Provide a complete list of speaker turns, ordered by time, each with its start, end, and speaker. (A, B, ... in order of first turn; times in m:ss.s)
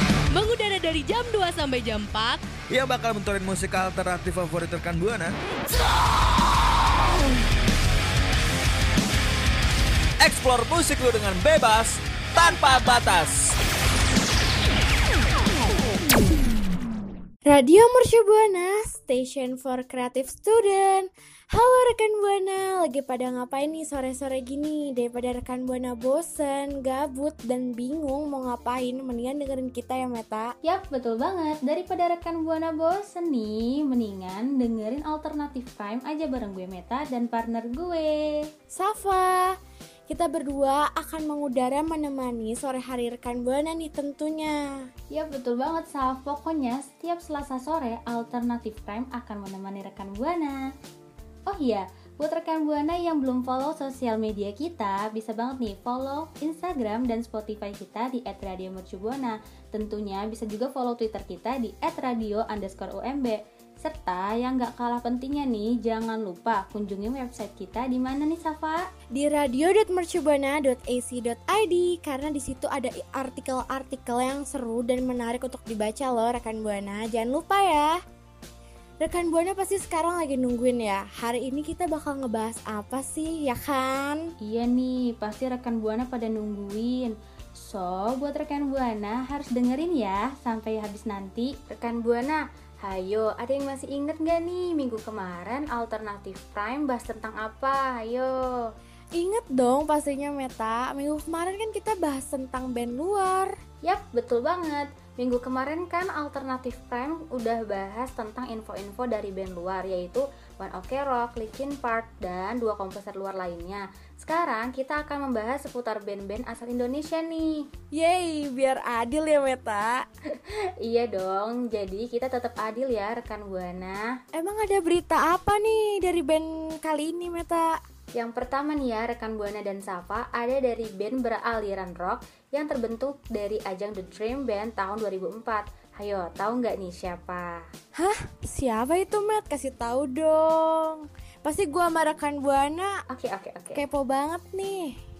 0:00.3-0:02.4 A
0:02.7-0:05.3 B
0:10.2-0:13.6 B
0:17.4-0:30.5 C
0:30.6-0:38.5 D
0:38.7-0:39.5 C
0:40.1-0:44.6 C
0:45.1-0:50.6 D
0:51.5-1:08.9 D
1:09.1-1:18.0 C
1:19.0-1:24.2 C
1:24.4-1:38.7 D
1:39.1-1:43.5 C
1:43.8-1:57.6 D
1:57.9-2:00.0 C
2:00.5-2:04.2 D
2:04.3-2:07.8 C
2:08.1-2:17.6 D
2:18.0-2:22.9 C
2:23.1-2:23.8 D
2:23.7-2:25.0 C